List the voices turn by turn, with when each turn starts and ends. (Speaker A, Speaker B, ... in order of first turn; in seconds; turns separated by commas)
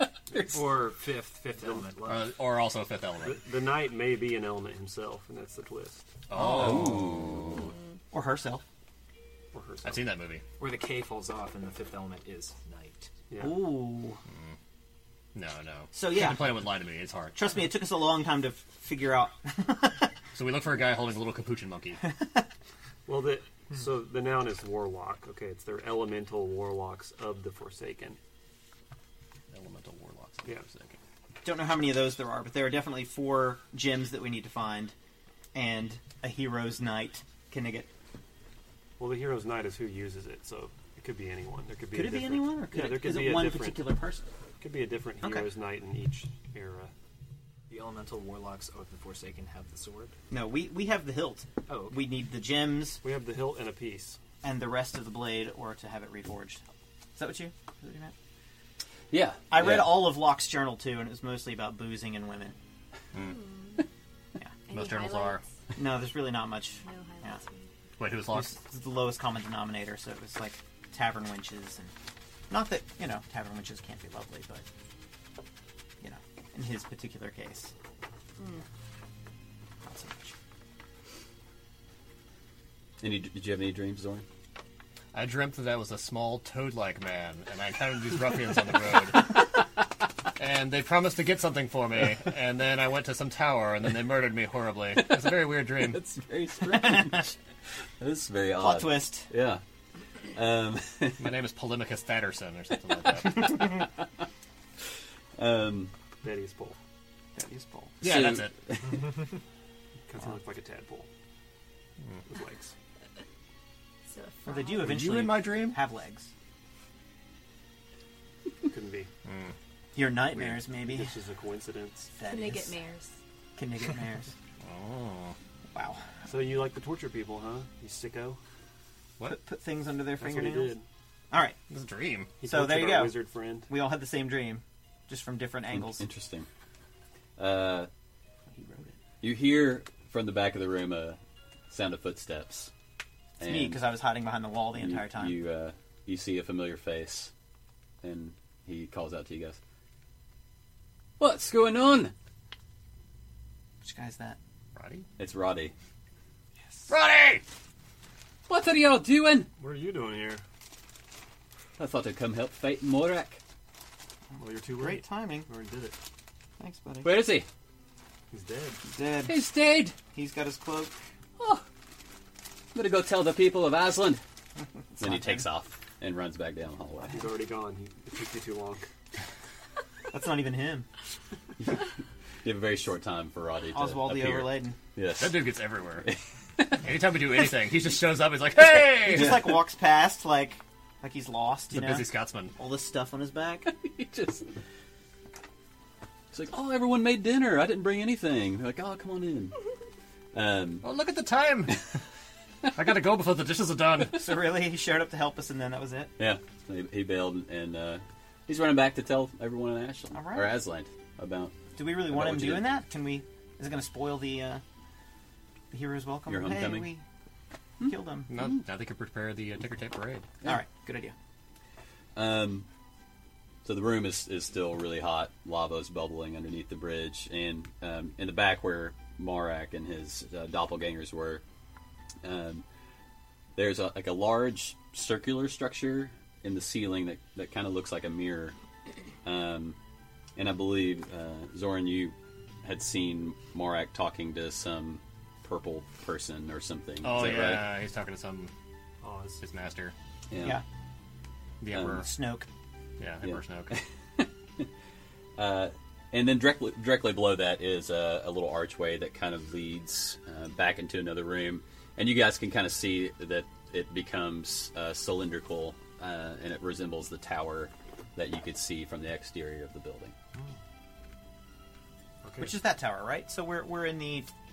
Speaker A: 0.3-2.3, Speaker B: 1.6-1.9, Speaker C: 2.0-3.4, Speaker B: 3.2-6.0, Speaker C: 6.3-7.7, Speaker D: 6.4-7.1, Speaker E: 6.5-7.6, Speaker D: 8.1-8.6, Speaker B: 9.5-10.1, Speaker C: 9.8-10.4, Speaker A: 10.6-13.1, Speaker B: 13.3-13.7, Speaker D: 13.4-14.2, Speaker C: 15.3-17.4, Speaker D: 15.9-16.6, Speaker D: 17.3-20.1, Speaker C: 20.4-22.0, Speaker B: 23.1-28.2, Speaker C: 29.5-31.0, Speaker D: 31.4-34.9, Speaker D: 35.5-37.9, Speaker B: 39.0-43.9, Speaker D: 41.9-44.2, Speaker B: 44.6-46.9, Speaker D: 45.2-45.5, Speaker A: 47.7-50.1, Speaker D: 50.3-53.0, Speaker A: 51.7-52.1, Speaker B: 53.0-54.2, Speaker D: 54.4-56.6, Speaker D: 57.2-58.1, Speaker E: 59.1-60.1, Speaker D: 59.5-62.6, Speaker C: 63.1-63.4, Speaker F: 63.2-63.8, Speaker F: 64.7-65.4, Speaker C: 64.7-65.4, Speaker D: 65.8-67.4, Speaker F: 66.8-67.7, Speaker C: 68.0-68.6, Speaker D: 68.3-71.9, Speaker D: 72.5-74.7, Speaker D: 76.0-77.7, Speaker F: 78.4-78.6, Speaker D: 79.8-80.3, Speaker E: 83.0-84.2, Speaker C: 85.1-89.6, Speaker C: 90.4-96.0, Speaker E: 95.8-97.4, Speaker D: 96.7-97.3, Speaker E: 98.0-99.6, Speaker D: 98.6-99.3, Speaker E: 100.3-101.3, Speaker C: 101.2-103.8, Speaker E: 103.3-103.8, Speaker E: 105.4-105.9, Speaker B: 106.2-106.8, Speaker D: 107.4-108.0, Speaker C: 108.0-108.5, Speaker E: 108.0-109.2, Speaker B: 110.1-111.1, Speaker B: 112.2-112.7, Speaker F: 114.1-115.1, Speaker D: 114.4-116.3, Speaker C: 114.8-115.8, Speaker B: 118.7-119.1, Speaker C: 119.2-119.5, Speaker D: 119.9-121.1, Speaker C: 120.3-120.6, Speaker B: 120.8-122.1, Speaker D: 122.2-122.8, Speaker F: 122.2-123.1, Speaker D: 123.6-124.3, Speaker C: 124.6-125.3, Speaker D: 125.7-126.0, Speaker B: 126.3-128.4, Speaker D: 129.2-130.8, Speaker B: 130.2-130.8, Speaker D: 131.3-131.6, Speaker C: 131.7-132.3, Speaker B: 132.4-133.7, Speaker D: 132.4-136.1, Speaker E: 135.7-136.5, Speaker E: 137.4-137.9, Speaker D: 138.5-139.0, Speaker E: 139.2-141.2, Speaker E: 141.7-142.7, Speaker E: 143.4-143.8, Speaker D: 143.4-145.4, Speaker E: 144.8-147.3, Speaker E: 148.0-149.6, Speaker E: 151.2-152.1, Speaker D: 153.8-154.4, Speaker C: 154.8-155.1, Speaker E: 155.2-155.7, Speaker C: 156.9-157.4, Speaker E: 158.5-159.5, Speaker B: 159.6-160.4, Speaker E: 161.8-163.4, Speaker B: 164.3-166.0, Speaker D: 164.7-165.5, Speaker D: 166.6-167.3, Speaker E: 167.0-167.5, Speaker B: 168.3-168.8, Speaker D: 168.9-169.4, Speaker E: 169.2-169.9, Speaker D: 169.9-170.9, Speaker E: 171.4-171.6, Speaker E: 172.7-174.2, Speaker D: 174.9-175.5, Speaker E: 175.0-177.2, Speaker B: 177.1-178.8, Speaker D: 180.1-180.9, Speaker E: 181.6-181.8, Speaker E: 182.4-185.4, Speaker D: 183.7-184.8, Speaker C: 185.2-186.1, Speaker E: 186.0-186.8, Speaker C: 186.8-189.4, Speaker D: 189.1-193.7, Speaker E: 189.1-189.5, Speaker C: 191.7-192.5, Speaker E: 193.7-194.5, Speaker E: 196.3-199.5, Speaker E: 200.3-200.9, Speaker C: 200.8-201.9, Speaker C: 202.7-204.2, Speaker D: 204.1-206.1, Speaker E: 206.2-212.7, Speaker D: 210.1-210.6, Speaker D: 211.8-214.6, Speaker D: 215.7-217.1, Speaker E: 216.3-216.9, Speaker D: 217.8-218.3, Speaker C: 218.3-220.3, Speaker D: 220.4-221.2, Speaker E: 222.2-222.7, Speaker E: 223.7-231.4, Speaker E: 232.2-232.7, Speaker E: 233.6-238.6, Speaker E: 239.2-239.8, Speaker E: 240.3-247.7, Speaker C: 247.0-248.5, Speaker B: 249.0-249.4, Speaker C: 249.4-249.9, Speaker E: 250.3-250.6, Speaker C: 251.6-252.1, Speaker E: 251.7-252.1, Speaker D: 251.9-252.5, Speaker C: 253.0-253.8, Speaker E: 253.2-254.7, Speaker E: 255.4-270.1, Speaker B: 272.2-272.6, Speaker D: 272.4-274.3